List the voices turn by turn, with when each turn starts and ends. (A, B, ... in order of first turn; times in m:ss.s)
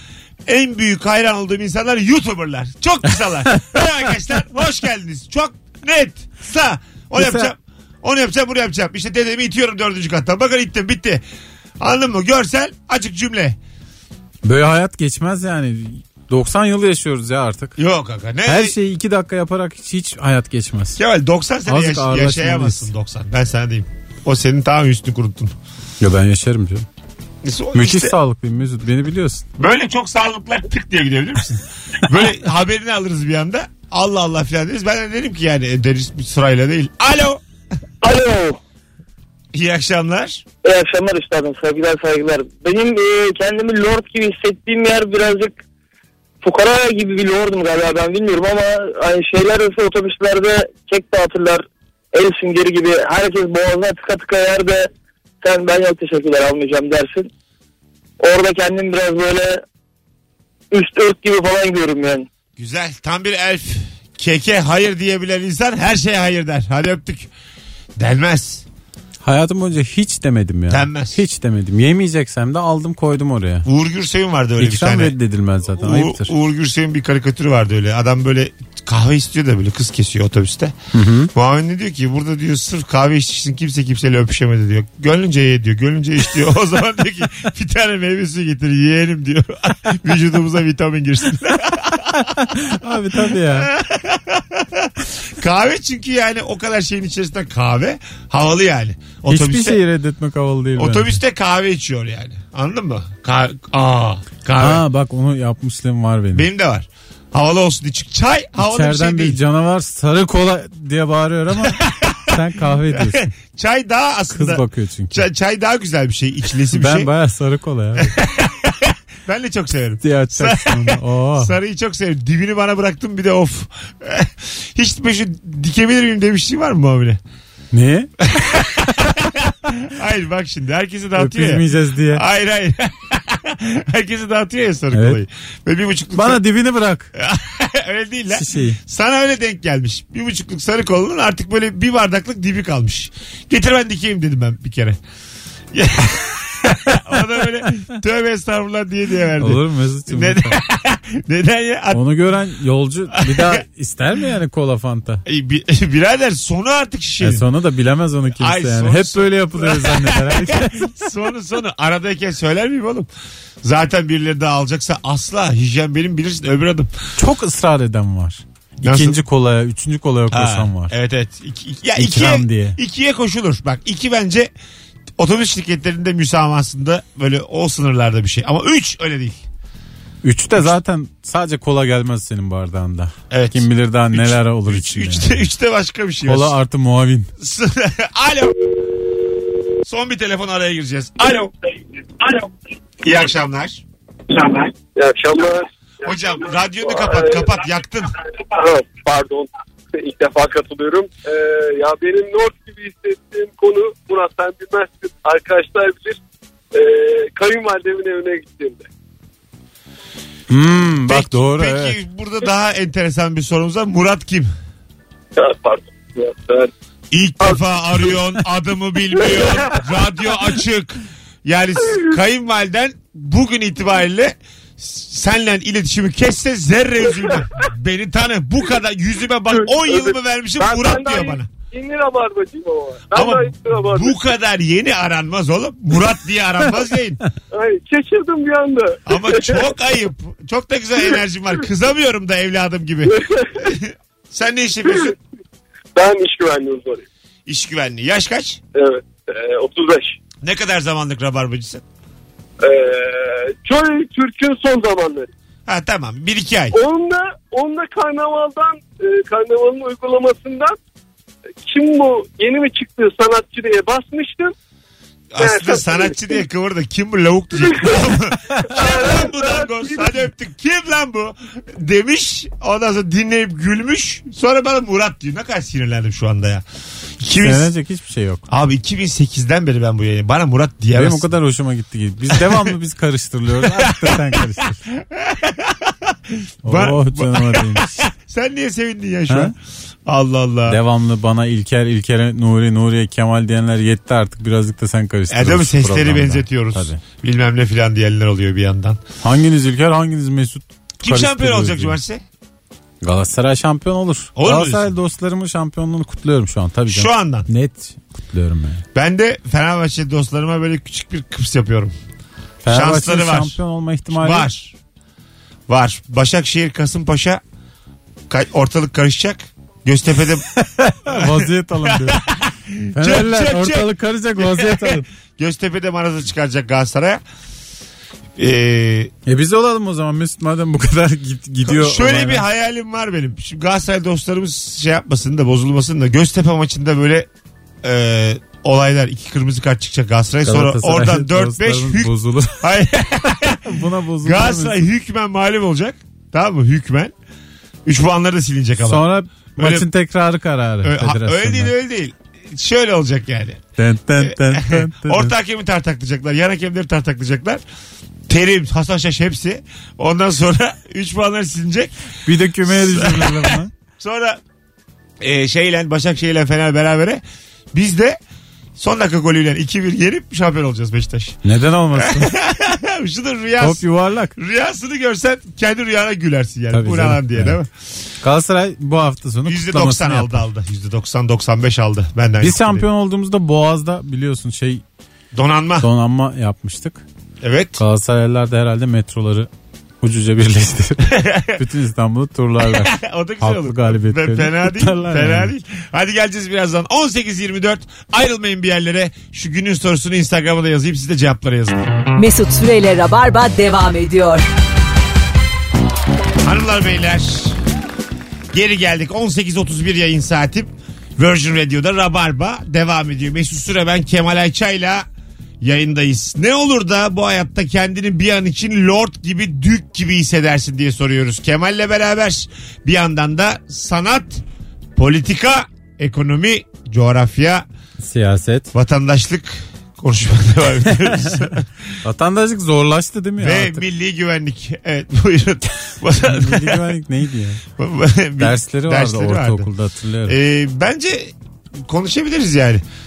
0:00.5-0:11.2 A
0:07.2-0:07.5 B
0:11.8-0:13.6 A
0:14.4-0:17.8 B
0:17.8-0:18.8 A
0:18.5-0:21.0 B
0:21.0-0:25.5 A
0:21.7-0:22.9 B
0:26.0-0:26.9 B
0:27.4-0:28.2 A
0:27.7-0:29.5 B
0:29.6-0:37.4 A
0:38.0-0:38.6 C
0:39.5-0:40.4 A
0:40.6-0:45.6 C
0:46.4-0:54.9 C
0:55.4-0:57.3 C
0:58.2-0:59.6 C
1:00.7-1:02.3 C
1:02.6-1:07.3 A
1:08.0-1:08.6 A
1:09.2-1:13.7 B
1:10.7-1:11.2 A
1:13.6-1:15.2 A
1:14.6-1:16.3 B
1:15.8-1:20.8 A
1:20.9-1:21.3 B
1:21.3-1:32.7 A
1:32.1-1:33.7 B
1:33.3-1:39.8 A
1:39.3-1:41.2 B
1:40.8-1:44.8 A
1:44.6-1:46.5 B
1:46.3-1:49.4 A
1:48.6-1:53.2 B
1:51.6-1:57.1 A
1:54.3-1:55.2 B
1:56.7-1:58.2 B
1:58.0-2:07.2 A
2:00.0-2:01.5 B
2:07.7-2:08.1 B
2:08.2-2:16.4 A
2:11.2-2:12.2 B
2:14.9-2:15.2 B
2:16.1-2:17.1 B
2:17.1-2:25.0 A
2:18.3-2:18.8 B
2:25.7-2:32.0 A
2:29.4-2:30.6 B
2:31.9-2:35.2 B
2:33.1-2:33.6 A
2:35.3-2:37.5 A
2:37.2-2:41.1 B
2:38.4-2:43.1 A
2:43.6-2:46.9 A
2:47.2-2:50.9 B
2:48.8-2:49.2 A
2:50.3-2:54.5 A
2:52.0-2:52.8 B
2:55.2-2:59.4 A
3:00.2-3:05.4 B
3:03.3-3:06.6 A
3:06.2-3:07.3 B
3:07.4-3:08.6 A
3:09.8-3:11.5 A
3:13.0-3:13.8 A
3:15.0-3:15.7 D
3:16.0-3:18.2 A
3:16.9-3:17.5 D
3:18.4-3:26.2 D
3:26.7-3:28.9 D
3:30.5-3:32.0 B
3:31.1-3:34.5 A
3:35.4-3:36.7 D
3:37.1-3:51.5 A
3:39.2-3:39.6 D
3:49.6-3:54.2 D
3:53.1-3:57.2 A
3:57.5-3:59.6 D
3:59.1-4:05.2 A
4:03.1-4:03.5 D
4:06.0-4:07.0 D
4:07.5-4:08.6 A
4:08.8-4:10.2 D
4:10.4-4:11.8 A
4:12.6-4:15.3 D
4:15.7-4:16.8 A
4:16.7-4:20.8 D
4:21.6-4:24.5 D
4:25.3-4:36.6 A
4:25.4-4:26.2 D
4:28.7-4:30.1 D
4:37.2-4:37.7 A
4:37.4-4:38.4 B
4:38.5-4:41.3 A
4:40.9-4:44.8 B
4:42.3-4:42.8 A
4:43.6-4:50.8 A
4:46.6-4:48.0 B
4:49.3-4:49.6 B
4:50.7-4:57.0 B
4:55.3-4:59.0 A
4:59.2-5:02.0 B
5:01.0-5:02.2 A
5:03.0-5:08.8 B
5:04.4-5:04.9 A
5:06.9-5:07.5 A
5:09.0-5:12.0 A
5:12.6-5:14.5 B
5:12.7-5:13.6 A
5:14.1-5:14.7 A
5:15.7-5:17.4 A
5:18.3-5:20.4 A
5:20.6-5:22.2 B
5:21.1-5:27.2 A
5:22.9-5:25.1 B
5:28.4-5:29.1 A
5:29.3-5:32.4 B
5:31.7-5:37.3 A
5:37.8-5:47.1 A
5:40.4-5:42.7 B
5:43.6-5:44.8 B
5:47.9-5:49.9 A
5:48.8-5:51.7 B
5:50.8-5:53.6 A
5:53.8-5:55.3 B
5:54.2-5:57.6 A
5:58.3-6:01.9 A
6:02.3-6:03.7 B
6:02.6-6:04.4 A
6:05.2-6:07.2 A
6:07.7-6:08.2 A
6:08.8-6:11.4 A
6:11.4-6:12.3 B
6:12.0-6:13.8 A
6:13.6-6:14.4 B
6:14.4-6:17.7 A
6:16.7-6:17.6 B
6:18.2-6:20.5 B
6:19.5-6:22.9 A
6:22.4-6:24.8 B
6:25.3-6:25.9 A
6:25.8-6:27.0 B
6:27.4-6:27.8 A
6:27.8-6:29.5 B
6:30.0-6:35.5 B
6:31.1-6:31.6 A
6:32.6-6:41.9 A
6:42.2-6:44.4 E
6:46.4-6:47.6 A
6:48.5-6:55.1 A
6:55.6-7:04.4 A
7:05.0-7:07.6 A
7:08.0-7:08.7 B
7:08.7-7:11.7 A
7:12.0-7:13.8 B
7:13.4-7:16.9 A
7:16.2-7:17.6 B
7:17.8-7:19.7 A
7:18.4-7:20.4 B
7:20.3-7:22.8 A